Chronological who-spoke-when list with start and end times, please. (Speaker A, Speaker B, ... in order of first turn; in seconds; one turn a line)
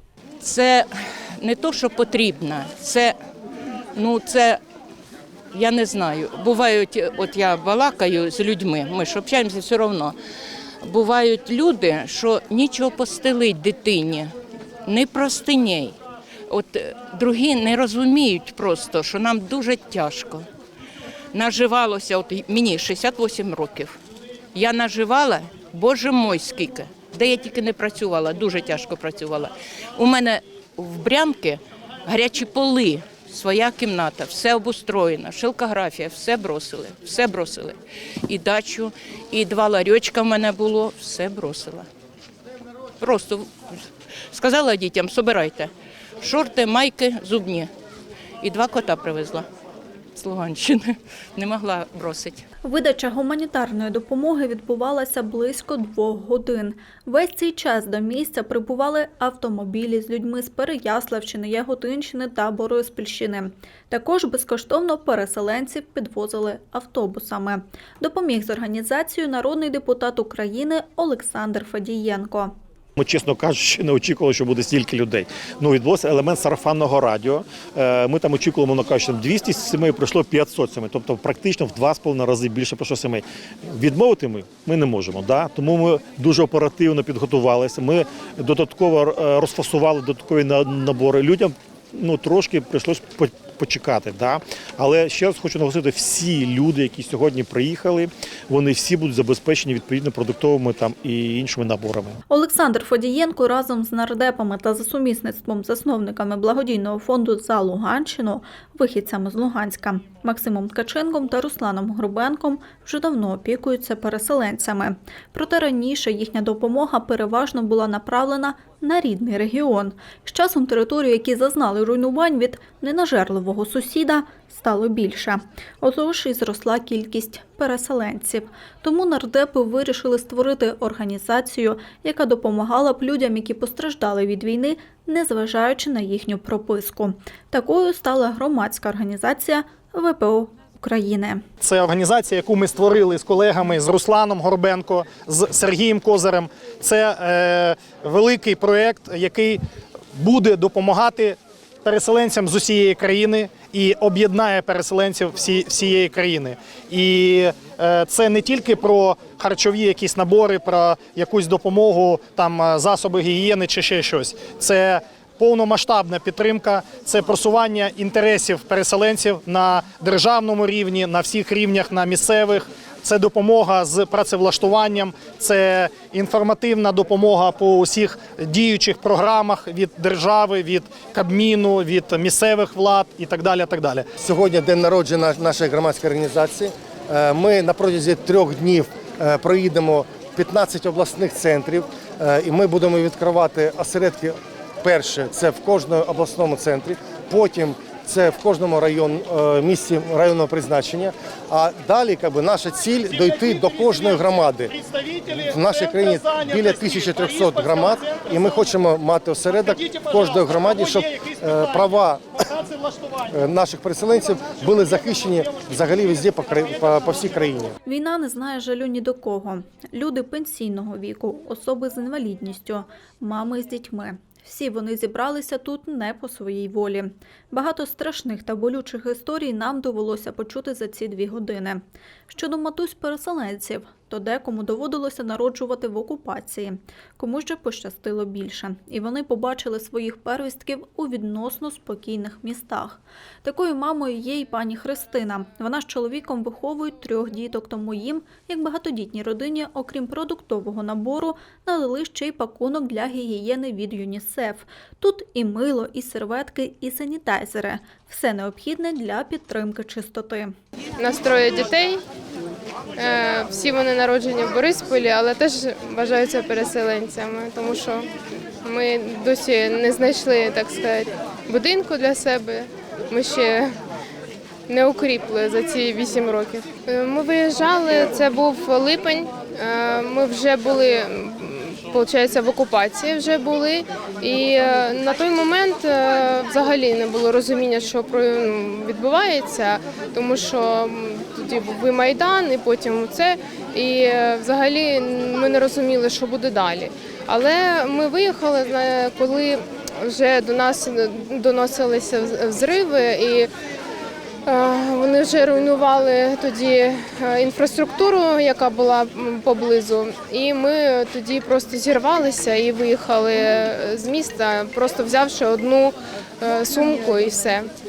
Speaker A: 0.4-0.9
Speaker A: 1.4-3.1
Speaker A: 4.0-4.6
Speaker A: 5.5-10.2
Speaker A: 10.8-14.3
Speaker A: 14.8-15.9
Speaker A: 16.5-20.4
Speaker A: 21.3-24.0
Speaker A: 24.5-41.9
Speaker A: 43.0-43.5
Speaker A: 44.3-47.7
Speaker A: 48.4-49.5
Speaker A: 50.2-52.4
Speaker B: 52.6-72.5
Speaker C: 73.0-102.2
Speaker B: 102.3-141.4
Speaker D: 141.6-149.6
Speaker D: 150.1-184.1
Speaker E: 184.2-204.7
Speaker D: 203.1-208.7
Speaker E: 205.4-212.5
Speaker D: 209.6-211.9
Speaker D: 212.5-213.3
Speaker E: 213.3-217.8
Speaker B: 217.8-260.5
Speaker F: 261.0-262.0
Speaker F: 263.0-268.1
Speaker F: 268.6-273.8
Speaker F: 274.7-303.5
Speaker F: 304.5-317.7